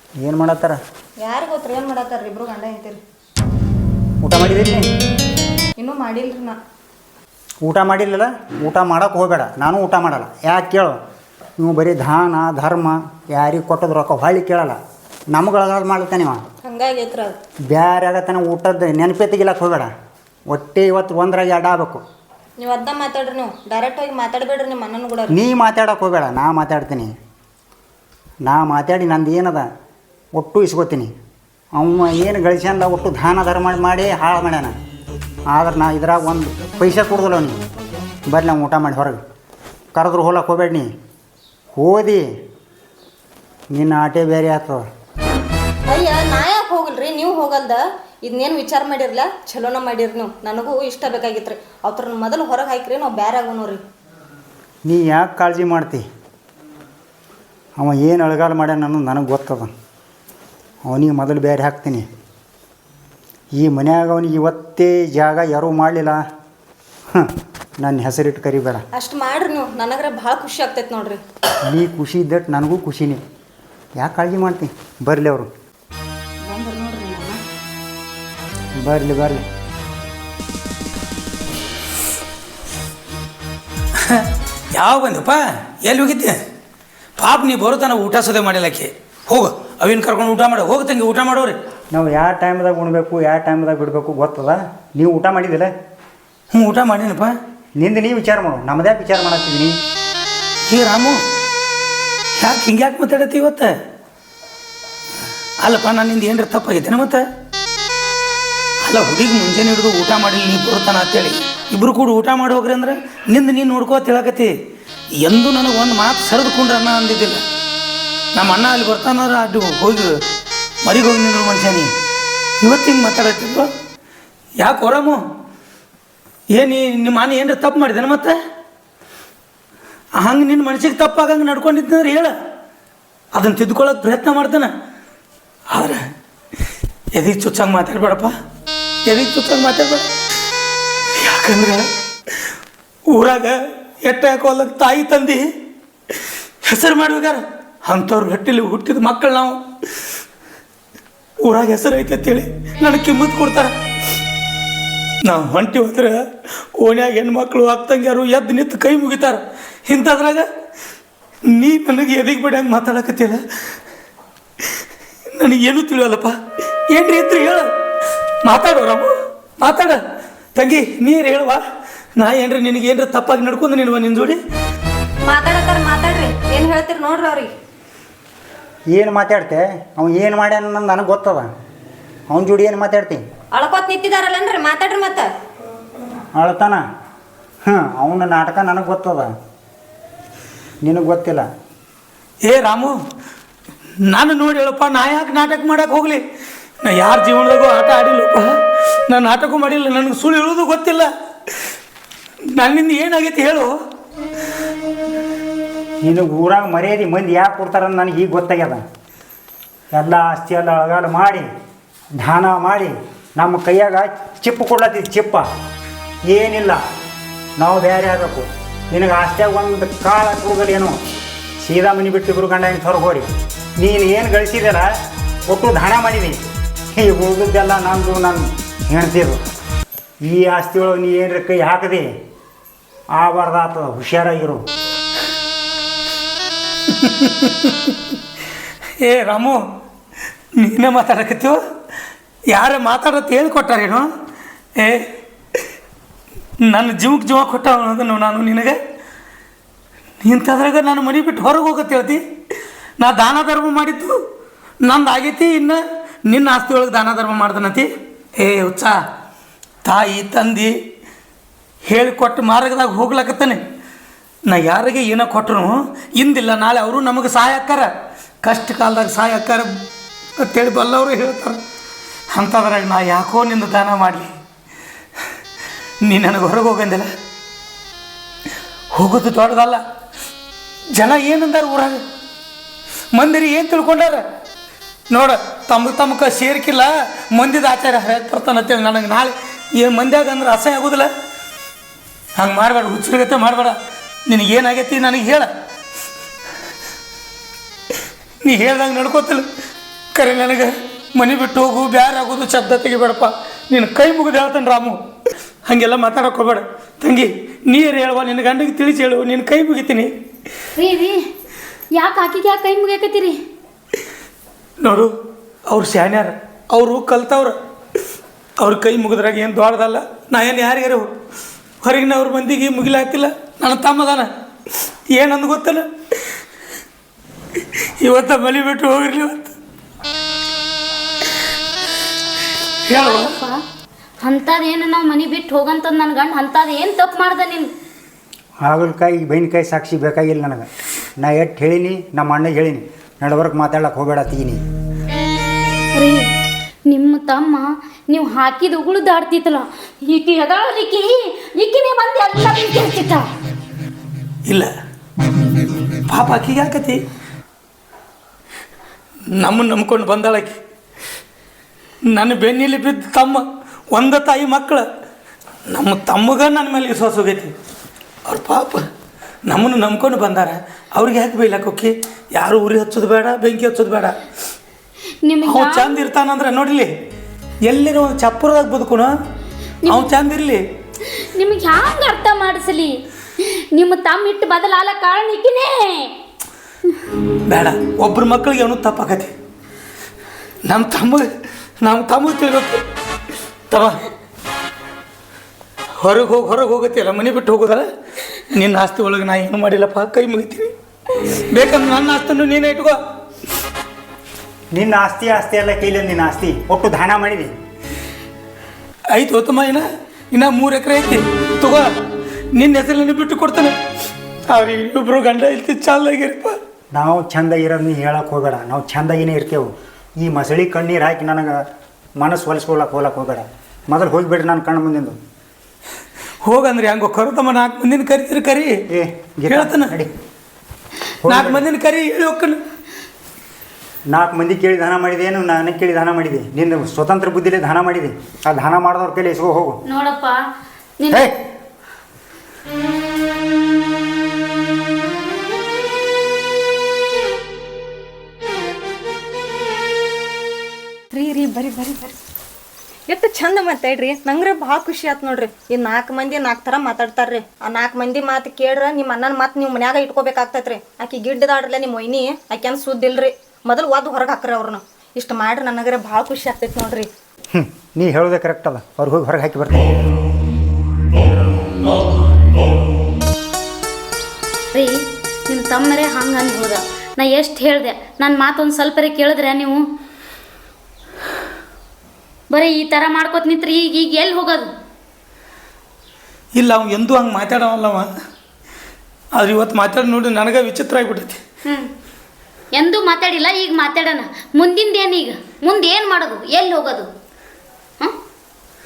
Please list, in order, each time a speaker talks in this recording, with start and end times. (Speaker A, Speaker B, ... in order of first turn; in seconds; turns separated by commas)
Speaker A: 0.2-0.8, Speaker B: 1.2-3.0, Speaker A: 4.2-4.9, Speaker B: 5.8-6.6, Speaker A: 7.6-11.0, Speaker A: 11.6-14.8, Speaker A: 15.3-16.4, Speaker B: 16.6-17.4, Speaker A: 17.7-19.9, Speaker A: 20.5-22.0, Speaker B: 22.6-25.4, Speaker A: 25.3-27.1, Speaker A: 28.4-29.7, Speaker A: 30.4-31.1, Speaker A: 31.8-34.7, Speaker A: 35.5-37.6, Speaker A: 38.3-39.2, Speaker A: 40.0-40.9, Speaker A: 41.8-42.2, Speaker A: 43.7-44.8, Speaker B: 45.9-53.8, Speaker A: 54.9-56.0, Speaker A: 57.8-59.7, Speaker A: 60.9-62.1, Speaker A: 63.6-66.2, Speaker A: 67.1-68.8, Speaker B: 68.9-71.2, Speaker A: 71.7-73.2, Speaker A: 74.0-75.5, Speaker B: 76.4-77.4, Speaker A: 78.8-79.4, Speaker C: 84.1-86.4, Speaker C: 87.2-91.6, Speaker A: 91.9-95.7, Speaker C: 96.5-97.3, Speaker A: 97.8-99.7, Speaker C: 100.7-101.2, Speaker C: 102.4-103.7, Speaker C: 105.6-107.2, Speaker C: 108.8-114.5, Speaker C: 115.2-117.4, Speaker C: 118.4-120.1, Speaker C: 120.8-121.9, Speaker C: 122.6-123.7, Speaker C: 124.6-125.2, Speaker C: 126.5-128.4, Speaker C: 130.2-132.3, Speaker C: 133.3-134.7, Speaker C: 135.7-136.0, Speaker C: 137.2-138.3, Speaker C: 139.1-140.1, Speaker C: 141.2-141.9, Speaker C: 143.1-145.4, Speaker C: 146.6-149.6, Speaker C: 151.4-153.7, Speaker C: 155.2-156.2, Speaker C: 156.8-160.5, Speaker C: 161.5-163.4, Speaker C: 165.3-166.3, Speaker C: 166.9-167.7, Speaker C: 168.4-170.0, Speaker C: 170.6-171.6, Speaker C: 172.2-174.4, Speaker B: 175.2-177.5, Speaker A: 178.9-181.5, Speaker A: 182.3-183.2, Speaker B: 183.5-185.3, Speaker A: 186.4-186.8, Speaker A: 187.7-189.3, Speaker A: 190.8-191.5, Speaker C: 192.4-193.0, Speaker C: 194.0-196.2, Speaker C: 196.8-198.5, Speaker C: 199.1-201.1, Speaker C: 202.6-203.8, Speaker A: 206.0-208.8, Speaker A: 209.9-211.5, Speaker A: 212.2-215.5, Speaker A: 216.3-216.8, Speaker A: 217.6-221.0, Speaker A: 221.6-223.3, Speaker A: 223.8-224.9, Speaker A: 225.5-226.4, Speaker A: 226.9-229.4, Speaker A: 230.2-232.1, Speaker A: 233.2-234.6, Speaker C: 236.9-238.1, Speaker C: 239.0-239.6, Speaker C: 240.6-241.6, Speaker C: 242.5-244.1, Speaker C: 244.8-245.1, Speaker C: 246.6-248.8, Speaker C: 250.2-252.2, Speaker C: 253.0-254.1, Speaker C: 254.8-258.9, Speaker C: 259.8-260.7, Speaker C: 261.9-263.6, Speaker C: 264.5-267.9, Speaker C: 268.4-269.7, Speaker C: 270.4-271.6, Speaker C: 272.3-274.3, Speaker C: 276.0-277.1, Speaker C: 278.9-279.8, Speaker C: 280.9-282.0, Speaker C: 283.1-284.2, Speaker C: 285.1-291.1, Speaker C: 292.4-293.8, Speaker C: 294.3-295.5, Speaker C: 298.4-299.5, Speaker C: 300.1-305.0, Speaker C: 305.7-310.1, Speaker D: 310.8-311.2, Speaker D: 311.9-313.4, Speaker C: 314.8-315.1, Speaker C: 315.7-317.6, Speaker C: 318.6-321.1, Speaker C: 321.8-324.3, Speaker C: 325.1-325.9, Speaker C: 327.6-329.5, Speaker C: 332.9-333.3, Speaker D: 332.9-333.6, Speaker D: 334.2-337.7, Speaker A: 338.6-340.7, Speaker A: 341.2-344.6, Speaker D: 345.9-346.3, Speaker D: 346.9-353.2, Speaker C: 356.1-357.0, Speaker C: 359.4-360.6, Speaker C: 362.1-364.9, Speaker C: 365.7-367.5, Speaker C: 368.3-368.8, Speaker C: 369.5-374.2, Speaker D: 375.2-376.1, Speaker C: 375.4-376.9, Speaker C: 377.6-379.1, Speaker D: 379.9-380.1, Speaker C: 379.9-380.6, Speaker D: 381.2-386.1, Speaker C: 387.5-389.3, Speaker C: 390.6-391.3, Speaker C: 391.8-392.8, Speaker C: 393.7-394.0, Speaker C: 396.0-397.9, Speaker C: 398.5-403.0, Speaker A: 404.7-407.5, Speaker C: 409.1-411.9, Speaker C: 412.5-413.8, Speaker C: 414.5-416.6, Speaker A: 416.9-421.6, Speaker A: 422.2-425.2, Speaker C: 426.4-428.9, Speaker A: 428.9-430.1, Speaker C: 429.5-429.9, Speaker A: 431.2-431.7, Speaker C: 431.2-432.6, Speaker A: 434.1-439.8, Speaker D: 439.9-440.4, Speaker D: 441.0-441.3, Speaker B: 451.1-452.2, Speaker B: 453.1-467.1, Speaker A: 467.5-469.9, Speaker D: 474.7-479.9, Speaker D: 482.5-484.7, Speaker C: 486.6-488.1, Speaker C: 489.3-491.4, Speaker D: 492.7-497.1